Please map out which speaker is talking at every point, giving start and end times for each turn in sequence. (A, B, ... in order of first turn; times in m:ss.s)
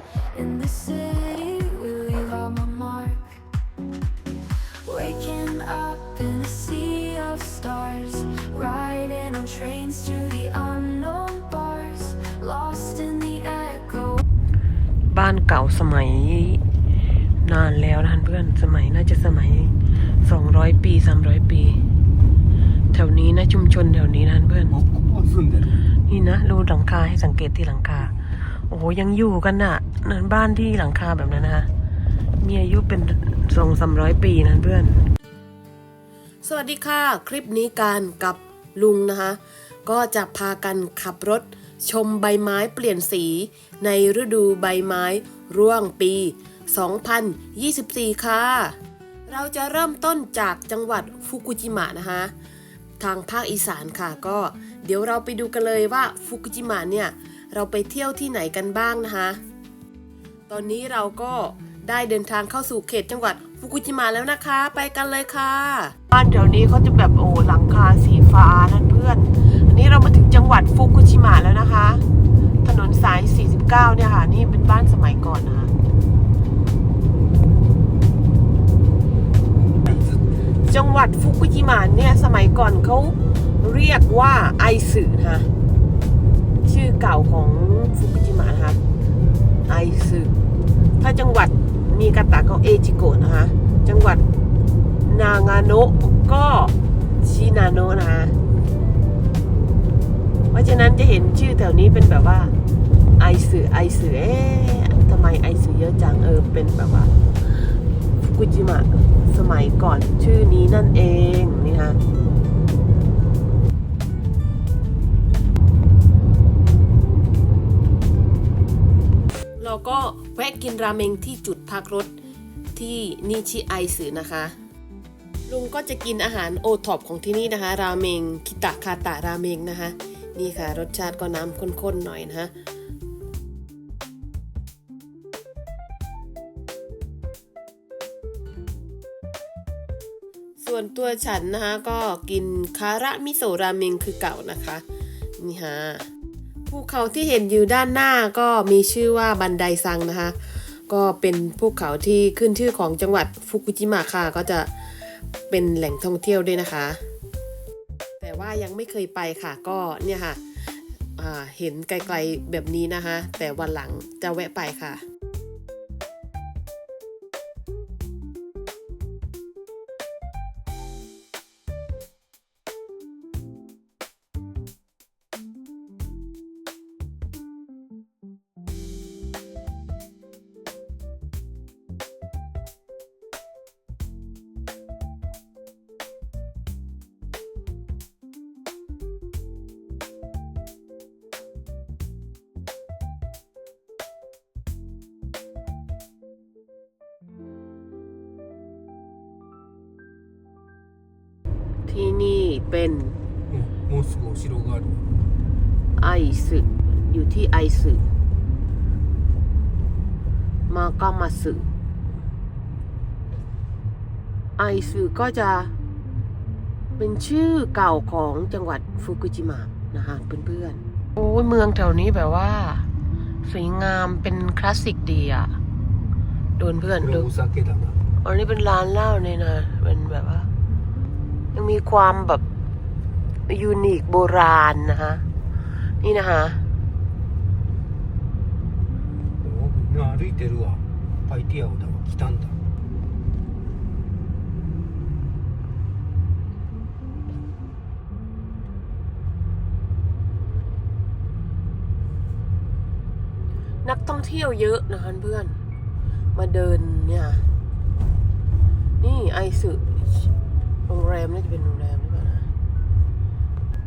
0:00.3-0:03.4 A
0:04.8-0:14.2 A
0:15.1-0:16.6 B
0:17.4-0:21.8 B
0:22.9-0:24.7 B
0:24.7-0:25.8 C
0:26.1-0:28.2 B
0:28.7-0:31.7 B
0:32.4-0:35.0 B
0:36.4-0:48.8 B
0:49.3-0:52.3 B
0:53.0-0:59.4 B
1:00.5-1:12.0 B
1:12.6-1:15.7 B
1:19.6-1:20.2 C
1:20.6-1:25.5 B
1:26.6-1:28.8 B
1:29.7-1:30.4 B
1:31.0-1:34.2 B
1:35.0-1:38.4 B
1:40.5-1:42.6 B
1:43.2-1:47.6 B
1:48.2-1:52.0 B
1:59.6-2:02.2 B
2:02.8-2:04.6 B
2:05.5-2:12.5 B
2:20.6-2:24.8 B
2:25.4-2:26.0 B
2:26.7-2:37.0 B
2:38.2-2:45.0 B
3:21.9-3:23.2 B
3:23.5-3:25.0 C
3:26.0-3:28.0 B
3:30.7-3:31.7 B
3:34.6-3:35.7 B
3:37.0-3:42.9 B
3:43.5-3:45.6 B
3:46.6-3:47.3 B
3:47.0-3:48.0 C
3:48.2-3:50.5 B
3:51.6-3:52.4 B
3:53.5-3:55.2 B
3:56.0-3:56.6 B
3:59.4-4:02.6 C
4:13.8-4:15.6 B
4:16.4-4:17.4 B
4:19.0-4:20.3 B
4:20.9-4:22.5 B